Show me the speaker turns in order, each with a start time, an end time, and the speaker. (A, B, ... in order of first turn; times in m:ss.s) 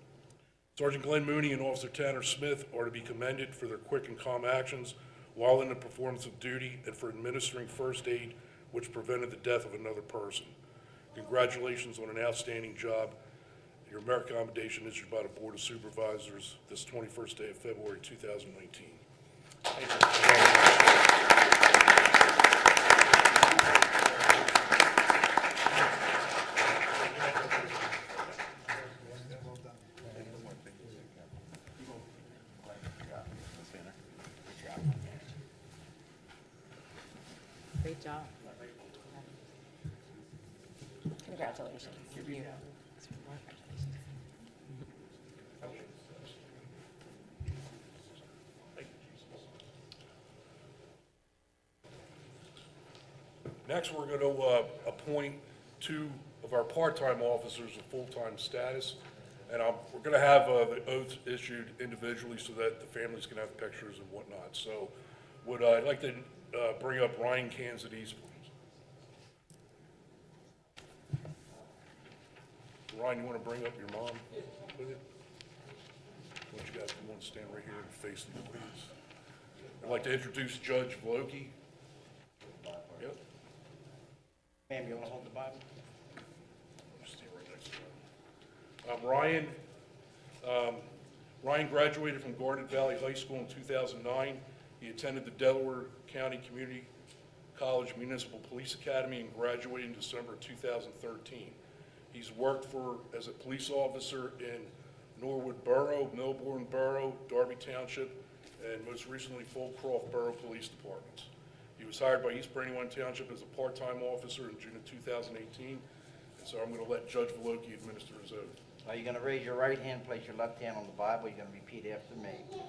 0:00.8-0:10.5 A
0:11.1-0:13.2 A
0:13.9-0:19.0 A
0:19.8-0:20.9 A
0:37.8-0:38.3 B
0:41.2-0:44.0 B
0:53.6-1:08.5 A
1:12.9-1:15.0 A
1:16.5-1:18.9 A
1:19.8-1:21.5 A
1:24.7-1:25.6 C
1:26.9-1:28.0 A
1:28.8-1:29.6 A
1:30.4-1:30.9 A
1:31.4-1:36.9 A
1:37.5-1:41.6 A
1:42.1-1:55.8 A
1:56.4-1:58.5 A
1:58.8-2:02.5 C